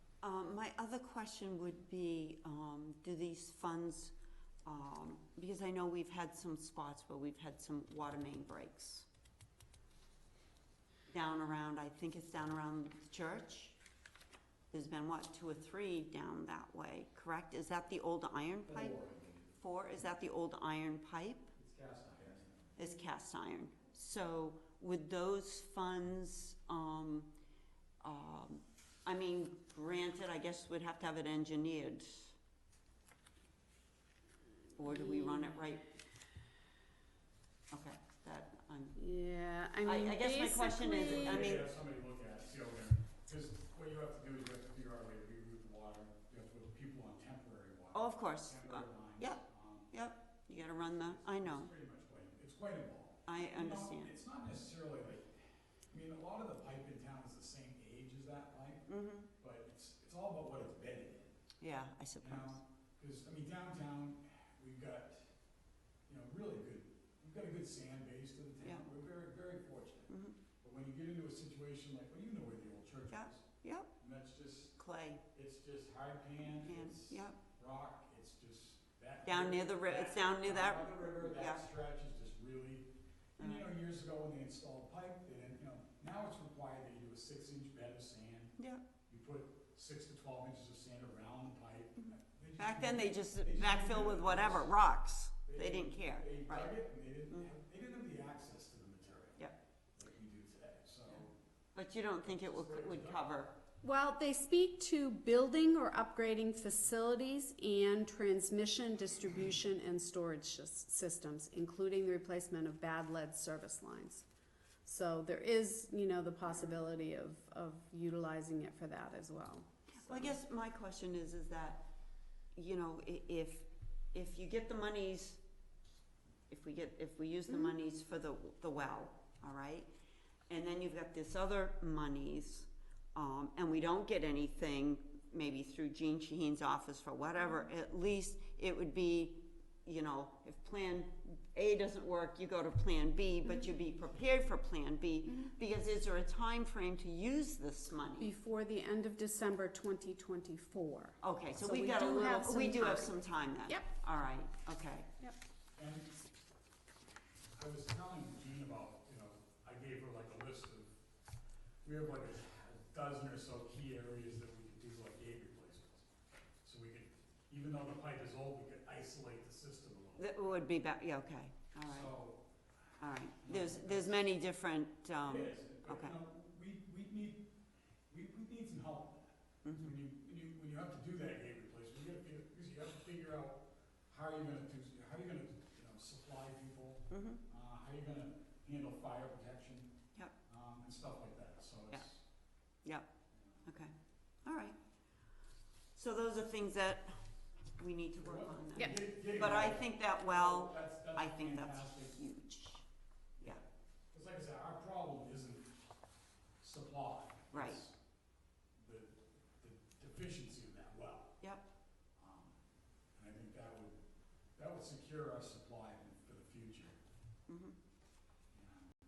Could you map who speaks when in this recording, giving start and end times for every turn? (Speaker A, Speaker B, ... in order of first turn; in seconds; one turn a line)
Speaker A: 0.2-4.1
Speaker A: 4.6-9.1
Speaker A: 11.1-13.8
Speaker A: 14.7-19.0
Speaker B: 18.7-19.4
Speaker A: 19.6-21.5
Speaker B: 21.6-22.7
Speaker A: 22.8-27.3
Speaker A: 28.0-32.3
Speaker A: 34.8-35.9
Speaker A: 37.7-39.0
Speaker C: 39.0-41.6
Speaker A: 39.8-41.7
Speaker B: 41.0-49.9
Speaker A: 47.9-49.4
Speaker A: 49.9-51.7
Speaker B: 50.9-58.9
Speaker A: 53.3-54.1
Speaker A: 58.9-59.3
Speaker B: 59.4-61.3
Speaker A: 61.6-62.6
Speaker B: 62.2-65.3
Speaker B: 66.1-70.1
Speaker A: 70.1-70.4
Speaker B: 70.6-73.5
Speaker A: 73.1-73.9
Speaker B: 74.0-74.8
Speaker A: 74.8-75.2
Speaker B: 75.3-88.5
Speaker A: 76.5-77.4
Speaker A: 79.2-81.7
Speaker A: 83.4-83.7
Speaker A: 88.6-88.9
Speaker B: 89.1-94.7
Speaker A: 92.6-96.8
Speaker B: 95.5-99.4
Speaker B: 100.0-101.3
Speaker A: 101.8-103.5
Speaker B: 102.3-103.2
Speaker C: 103.8-114.3
Speaker C: 114.8-120.3
Speaker A: 120.0-121.9
Speaker A: 122.5-125.4
Speaker A: 126.5-129.9
Speaker A: 130.5-148.3
Speaker C: 148.2-153.9
Speaker A: 151.2-155.1
Speaker B: 155.8-156.2
Speaker B: 157.6-160.9
Speaker B: 161.8-166.1
Speaker B: 166.6-170.3
Speaker A: 170.2-172.1
Speaker B: 171.9-172.4
Speaker A: 173.0-176.2
Speaker B: 173.4-174.3
Speaker B: 175.2-177.4
Speaker B: 178.1-189.9
Speaker A: 179.6-179.9
Speaker A: 187.1-187.4
Speaker B: 190.5-192.2
Speaker A: 192.8-193.1
Speaker B: 193.3-193.7
Speaker A: 193.7-193.9
Speaker A: 194.4-194.8
Speaker A: 195.9-197.1
Speaker A: 197.8-202.8
Speaker B: 198.2-202.2
Speaker B: 203.4-205.7
Speaker B: 206.6-207.9
Speaker A: 207.5-207.8
Speaker B: 208.8-211.4
Speaker A: 211.4-211.7
Speaker B: 212.2-212.6
Speaker B: 213.2-214.0
Speaker B: 214.6-217.0
Speaker A: 217.5-217.8
Speaker B: 218.5-218.9